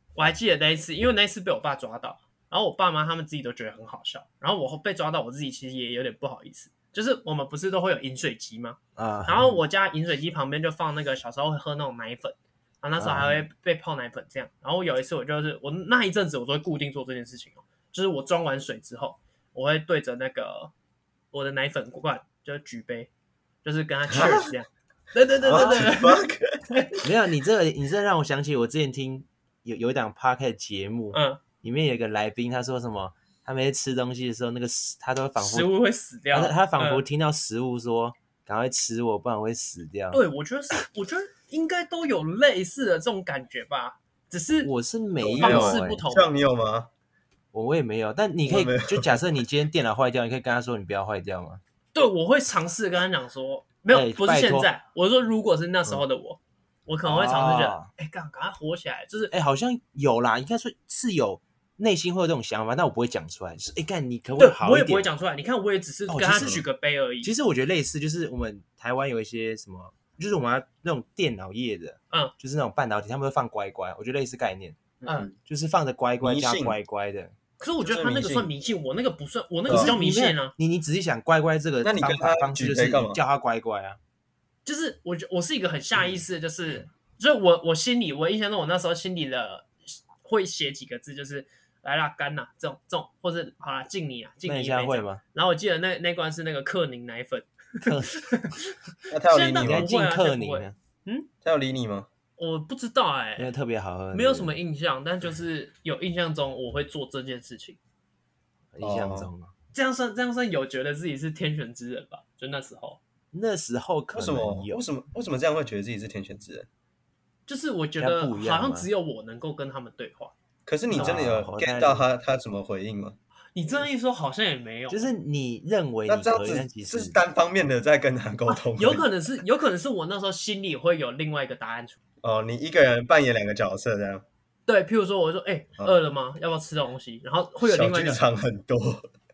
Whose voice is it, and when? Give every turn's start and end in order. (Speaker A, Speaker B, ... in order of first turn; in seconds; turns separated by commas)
Speaker A: 0.2-20.7, Speaker B: 9.0-9.5, Speaker B: 13.0-13.4, Speaker A: 21.3-23.1, Speaker A: 23.6-26.9, Speaker C: 24.1-24.5, Speaker C: 25.4-26.9, Speaker B: 25.5-25.9, Speaker B: 27.0-35.7, Speaker A: 31.1-31.4, Speaker A: 35.4-37.0, Speaker B: 36.3-40.2, Speaker A: 40.1-44.7, Speaker B: 44.6-46.0, Speaker C: 45.2-46.9, Speaker A: 45.3-46.2, Speaker B: 47.5-51.6, Speaker C: 48.5-49.2, Speaker A: 51.9-59.3, Speaker B: 53.9-54.7, Speaker B: 57.0-57.9, Speaker B: 59.3-65.1, Speaker A: 64.4-67.3, Speaker B: 66.1-66.6, Speaker C: 66.3-66.6, Speaker B: 67.2-77.3, Speaker C: 75.0-75.3, Speaker A: 75.0-75.3, Speaker C: 76.2-76.8, Speaker A: 77.6-80.5, Speaker C: 77.8-78.5, Speaker C: 79.7-80.0, Speaker B: 79.7-84.0, Speaker C: 81.8-83.2, Speaker A: 84.7-98.6, Speaker B: 94.5-95.2, Speaker B: 97.8-98.5, Speaker C: 99.1-99.9, Speaker A: 99.3-101.3, Speaker B: 99.6-100.8, Speaker C: 101.4-102.1, Speaker A: 102.4-103.5, Speaker B: 103.4-104.5, Speaker A: 104.1-107.8, Speaker B: 108.7-109.5, Speaker C: 108.8-109.3, Speaker A: 109.7-113.0, Speaker B: 113.3-114.8, Speaker C: 114.1-116.7, Speaker A: 117.5-120.3, Speaker B: 118.0-118.9, Speaker C: 120.7-123.2, Speaker A: 120.9-121.3, Speaker B: 120.9-122.1, Speaker A: 123.5-125.1, Speaker B: 124.9-127.2, Speaker C: 126.1-129.1, Speaker A: 128.5-132.0, Speaker C: 132.2-134.2, Speaker A: 134.7-138.2, Speaker C: 137.6-139.1